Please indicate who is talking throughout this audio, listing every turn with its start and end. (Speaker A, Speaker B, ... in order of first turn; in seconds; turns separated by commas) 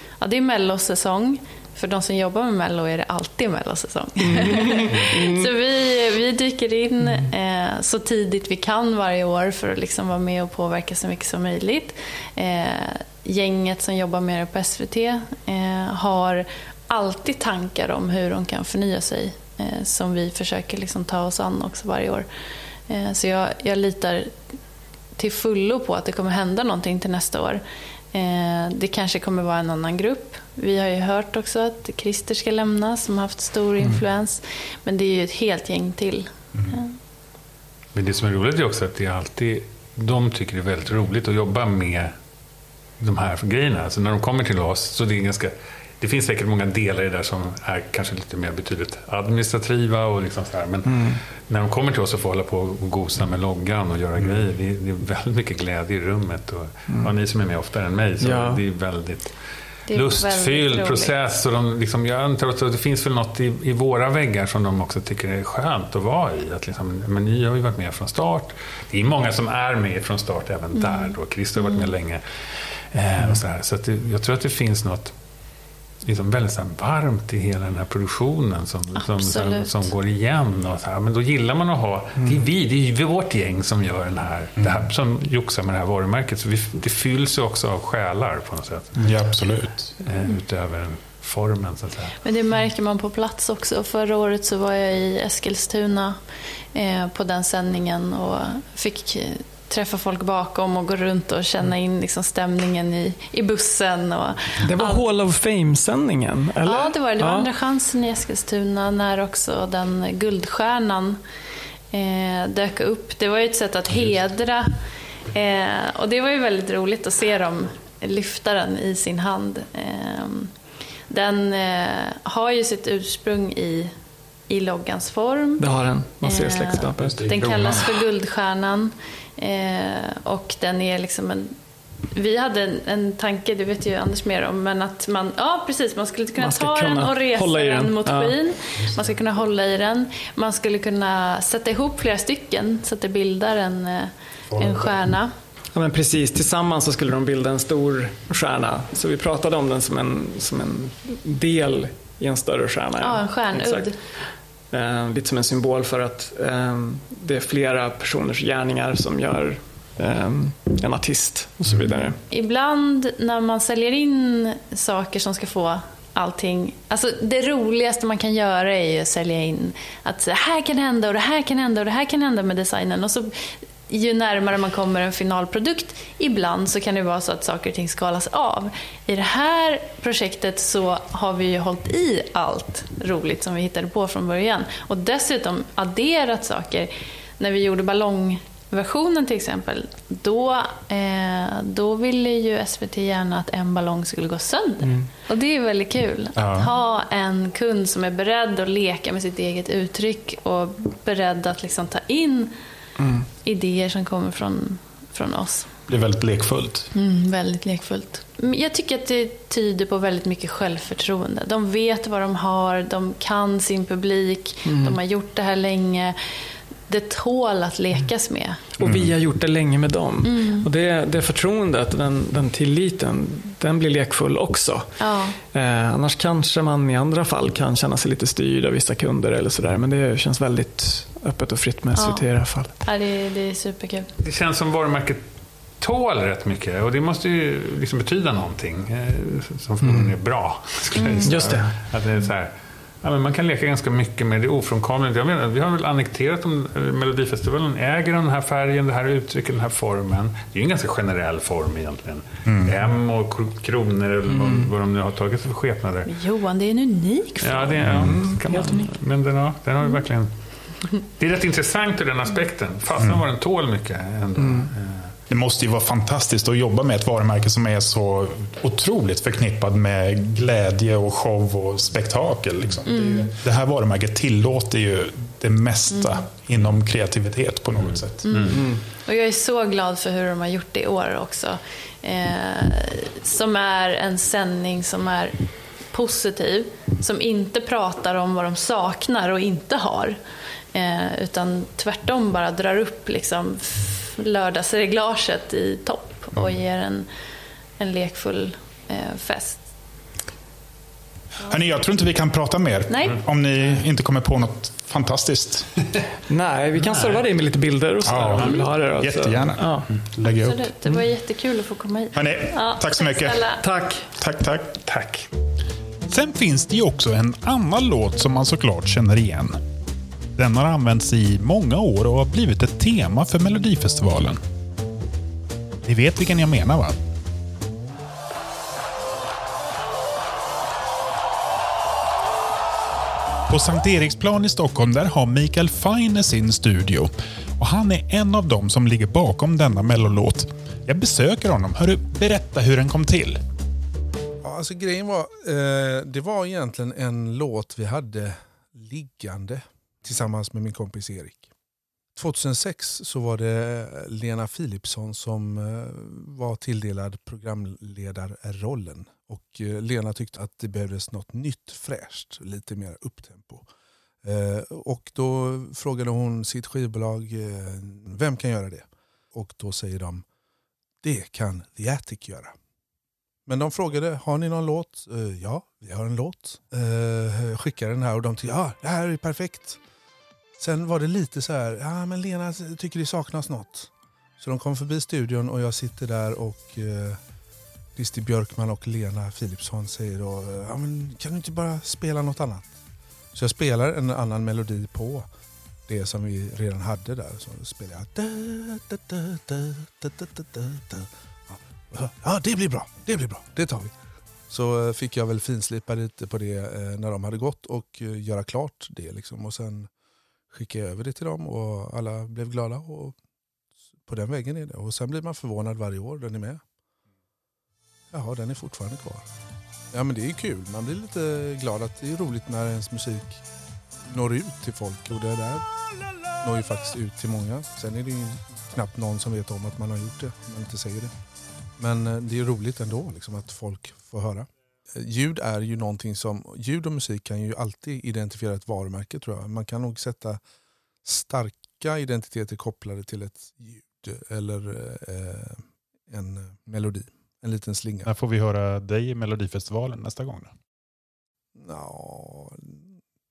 Speaker A: 0.2-22.3, Speaker B: 4.2-5.5, Speaker A: 22.9-24.4, Speaker A: 25.2-27.6, Speaker A: 28.1-37.0, Speaker C: 37.9-42.1, Speaker C: 43.0-59.3, Speaker B: 50.9-51.2, Speaker B: 58.2-58.6, Speaker A: 59.9-61.1, Speaker C: 59.9-72.2, Speaker A: 70.8-71.9, Speaker C: 72.9-75.1, Speaker C: 76.0-89.1, Speaker A: 79.0-79.8, Speaker D: 89.0-89.9, Speaker C: 90.0-92.2, Speaker A: 92.2-96.2, Speaker A: 96.7-105.0, Speaker B: 104.6-107.5, Speaker A: 106.6-111.2, Speaker A: 111.9-114.7, Speaker A: 115.3-120.5, Speaker A: 121.1-123.9, Speaker A: 124.5-125.7, Speaker B: 125.6-127.3, Speaker A: 126.2-131.5, Speaker D: 127.0-127.9, Speaker A: 132.1-145.3, Speaker B: 136.4-138.4, Speaker D: 138.8-139.1, Speaker D: 144.5-144.9, Speaker B: 145.8-153.9, Speaker A: 153.0-154.0, Speaker B: 154.7-162.2, Speaker A: 162.3-173.3, Speaker A: 173.9-202.5, Speaker D: 196.4-196.7, Speaker B: 203.0-203.3, Speaker A: 203.4-205.7, Speaker D: 205.9-206.9, Speaker A: 206.9-216.2, Speaker B: 214.7-215.0, Speaker A: 216.9-218.6, Speaker B: 218.8-224.9, Speaker D: 218.8-219.1, Speaker A: 220.2-220.7, Speaker A: 225.0-225.4, Speaker B: 225.5-232.7, Speaker A: 231.9-232.3, Speaker A: 232.8-234.1, Speaker C: 234.2-235.2, Speaker C: 235.8-242.5, Speaker B: 239.8-240.1, Speaker A: 241.0-241.3, Speaker B: 241.2-241.7, Speaker C: 243.0-256.1, Speaker D: 252.5-252.7, Speaker B: 254.3-254.7, Speaker A: 256.1-258.0, Speaker C: 257.4-260.3, Speaker D: 257.8-258.2, Speaker B: 258.0-258.9, Speaker C: 261.0-265.1, Speaker B: 264.4-264.7, Speaker D: 265.3-278.2, Speaker A: 272.9-273.3, Speaker A: 278.2-285.4, Speaker C: 278.3-278.6, Speaker B: 278.5-278.8, Speaker A: 285.9-290.2, Speaker A: 290.7-297.1, Speaker A: 297.8-299.6, Speaker D: 301.5-305.7, Speaker A: 302.9-303.2, Speaker B: 306.3-309.9, Speaker D: 308.1-310.7, Speaker A: 310.3-313.6, Speaker D: 312.1-313.4, Speaker B: 313.6-314.1, Speaker D: 314.2-314.8, Speaker C: 314.9-315.3, Speaker D: 316.1-319.6, Speaker D: 320.4-324.4, Speaker D: 325.8-327.0, Speaker D: 333.5-343.4, Speaker E: 344.4-351.5, Speaker E: 352.1-363.7, Speaker E: 364.2-370.2, Speaker E: 371.0-372.5, Speaker E: 373.5-379.8, Speaker E: 380.6-387.2, Speaker E: 388.0-392.8, Speaker E: 393.3-395.3, Speaker E: 395.9-403.9, Speaker E: 404.5-409.9, Speaker E: 410.5-413.2, Speaker E: 414.1-416.6, Speaker E: 418.1-419.3, Speaker E: 419.9-423.4, Speaker E: 424.1-425.7, Speaker E: 426.4-431.1, Speaker E: 431.8-440.4, Speaker E: 441.0-448.1, Speaker D: 448.1-450.5, Speaker E: 451.6-452.9